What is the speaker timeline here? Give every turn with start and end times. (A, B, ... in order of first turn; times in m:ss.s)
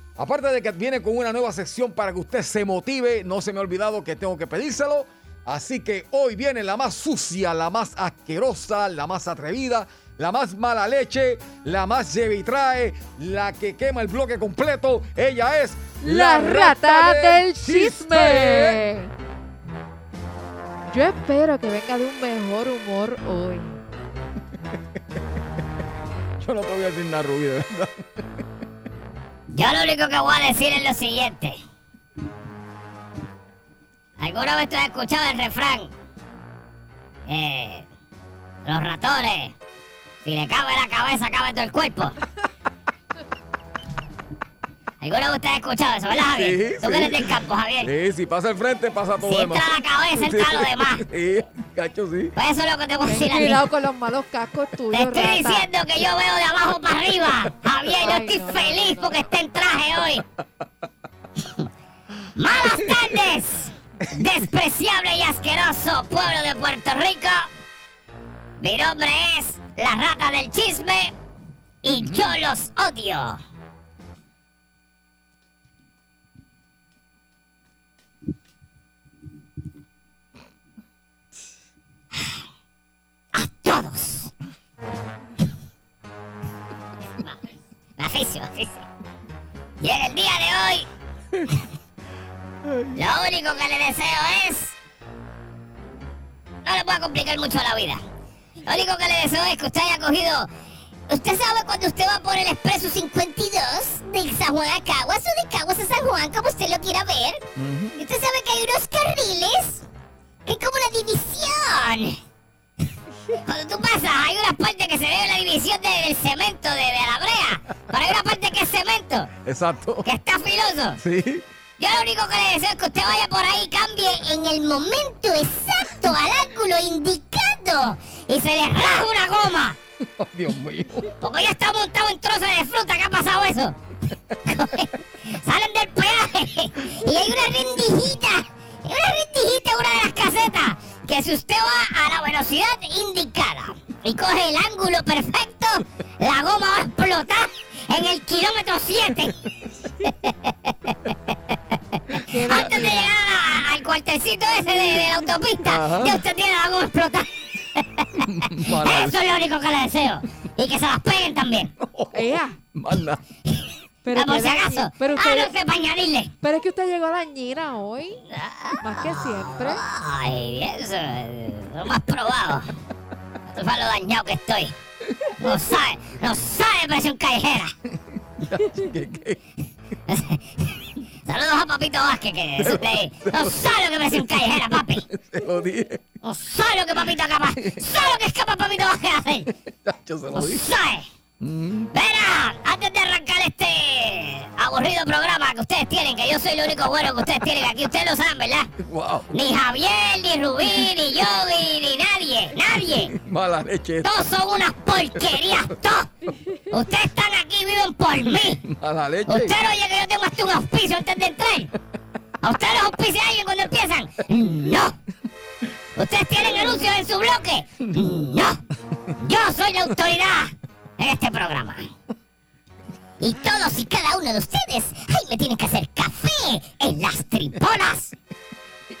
0:00.2-0:18.8 A
0:16.0-0:19.1 B
0:20.9-0:23.8 B
0:26.4-0:28.2 A
0:29.5-0:31.6 C
0:34.2-0:35.9 C
0:37.3-0:37.9 C
0:38.6-0:39.5 C
0:40.2-0:42.1 C
0:45.0-0:47.9 C
0:46.3-0:52.3 A
0:49.2-0:51.0 C
0:52.4-0:53.6 C
0:53.0-0:55.7 B
0:54.9-1:00.2 C
0:58.0-0:59.2 B
1:02.4-1:07.5 C
1:08.6-1:11.1 C
1:11.8-1:13.4 C
1:23.3-1:24.3 C
1:28.0-1:28.9 C
1:29.8-1:30.9 C
1:32.9-1:34.7 C
1:36.6-1:38.0 C
1:38.6-1:40.5 C
1:41.1-1:47.4 C
1:47.6-1:48.0 A
1:48.0-1:49.8 C
1:50.4-1:52.2 C
1:53.3-1:59.3 C
1:59.4-2:00.1 A
2:00.0-2:01.0 C
2:01.0-2:01.4 A
2:01.8-2:09.8 C
2:10.0-2:11.1 A
2:11.2-2:13.8 C
2:14.4-2:29.3 C
2:30.0-2:41.7 C
2:32.2-2:33.1 B
2:35.6-2:36.2 A
2:38.2-2:39.2 A
2:41.8-2:43.2 A
2:42.1-2:42.6 B
2:44.0-2:45.5 B
2:44.1-2:46.3 C
2:46.4-2:48.2 B
2:48.3-2:52.7 C
2:48.8-2:49.8 B
2:53.5-2:54.8 C
2:55.4-2:57.7 C
2:58.4-2:59.4 A
3:00.1-3:05.0 C
3:02.6-3:03.6 A
3:04.7-3:06.0 A
3:06.2-3:09.5 C
3:07.6-3:07.9 A
3:09.6-3:10.7 A
3:10.3-3:11.1 C
3:11.4-3:11.9 A
3:11.9-3:18.7 C
3:18.8-3:19.3 A
3:19.3-3:23.1 C
3:23.0-3:24.2 A
3:24.0-3:26.1 C
3:25.2-3:25.6 A
3:26.7-3:28.6 C
3:28.5-3:29.6 A
3:29.3-3:31.7 C
3:32.4-3:34.9 C
3:36.0-3:38.6 C
3:39.2-3:41.9 C
3:43.2-3:48.1 C